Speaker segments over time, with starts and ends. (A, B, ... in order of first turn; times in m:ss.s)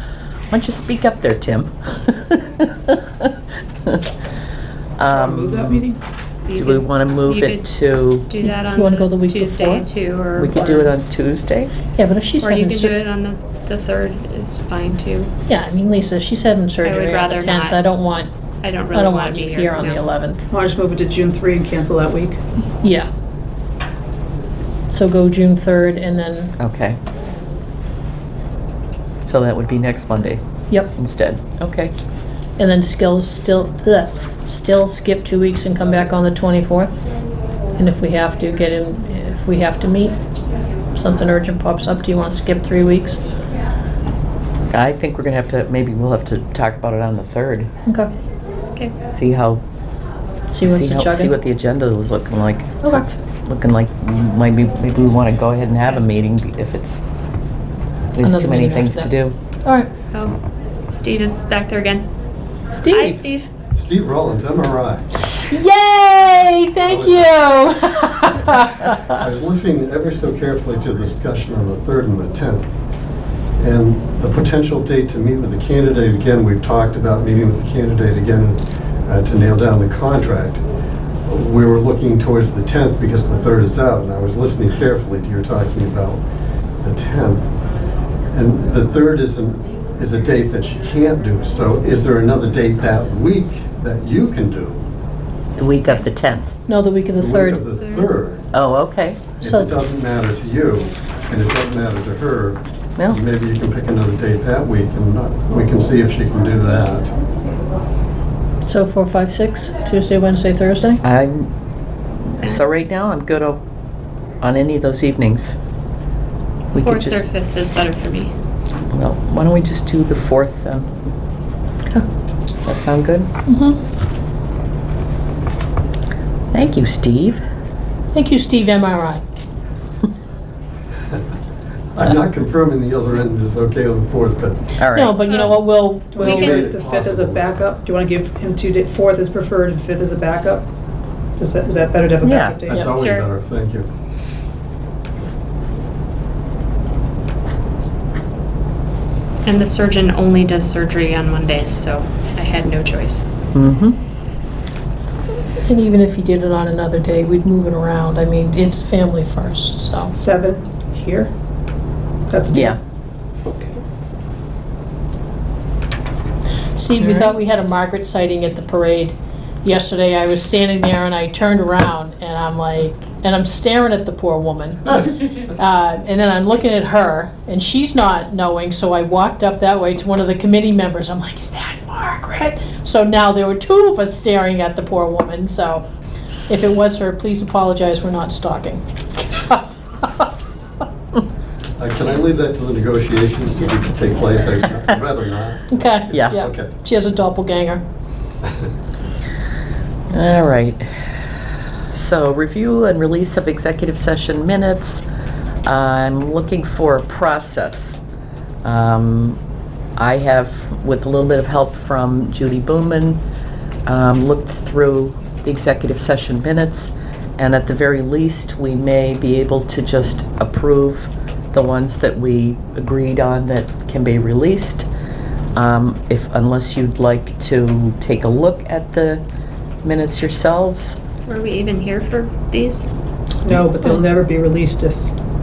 0:00.5-0:03.3 A
0:05.0-0:05.9 A
0:05.1-0:06.0 B
0:06.4-0:07.6 C
0:06.5-0:08.4 A
0:08.3-0:10.9 C
0:08.7-0:09.9 D
0:10.4-0:11.7 A
0:12.0-0:12.9 D
0:12.4-0:15.3 C
0:15.5-0:18.3 D
0:16.8-0:17.8 C
0:18.6-0:20.0 C
0:18.9-0:20.5 D
0:20.5-0:22.4 B
0:22.8-0:23.1 D
0:24.9-0:26.5 D
0:26.6-0:27.0 A
0:29.2-0:30.4 A
0:30.9-0:31.9 A
0:32.6-0:37.0 D
0:37.8-0:40.1 D
0:40.9-0:43.2 D
0:44.7-0:47.7 A
0:47.8-0:48.1 D
0:49.1-0:49.6 A
0:50.5-0:51.3 D
0:50.6-0:57.0 A
0:58.1-0:59.4 A
0:58.2-0:59.9 D
1:00.1-1:02.1 C
1:02.8-1:03.5 C
1:02.8-1:03.2 B
1:03.7-1:05.1 E
1:05.4-1:09.1 D
1:06.9-1:07.3 E
1:09.1-1:12.7 E
1:13.6-1:20.6 E
1:21.3-1:26.2 E
1:26.8-1:27.5 E
1:28.3-1:34.8 E
1:35.6-1:36.5 A
1:36.7-1:37.6 D
1:37.2-1:38.5 E
1:37.8-1:38.1 C
1:38.5-1:39.2 A
1:39.4-1:47.1 E
1:39.4-1:39.8 D
1:48.6-1:51.0 D
1:51.0-1:51.5 A
1:52.3-1:53.6 A
1:54.4-1:55.5 A
1:56.7-1:57.2 A
1:56.8-1:58.3 C
1:58.9-2:00.9 A
2:02.6-2:03.3 A
2:03.5-2:03.8 D
2:06.5-2:07.4 A
2:08.1-2:09.2 D
2:11.9-2:14.7 E
2:14.8-2:15.4 A
2:14.9-2:16.7 D
2:16.1-2:20.7 B
2:16.1-2:17.5 E
2:21.4-2:23.0 B
2:22.2-2:22.6 A
2:22.6-2:23.9 E
2:22.9-2:23.3 C
2:29.4-2:33.3 C
2:33.5-2:34.0 A
2:35.6-2:40.1 D
2:39.9-2:41.3 B
2:42.3-2:42.8 B
2:42.5-2:42.8 A
2:46.7-3:05.8 D
2:47.0-2:47.2 A
3:06.5-3:09.6 D
3:11.8-3:16.7 E
3:15.7-3:17.8 D
3:16.1-3:16.4 A
3:20.1-3:21.1 A
3:21.9-3:25.0 A
3:25.6-3:28.0 A
3:28.6-3:29.4 A
3:30.0-3:33.2 A
3:33.9-3:44.9 A
3:45.6-3:49.2 A
3:49.8-3:51.0 A
3:51.3-3:52.9 C
3:53.4-3:55.1 B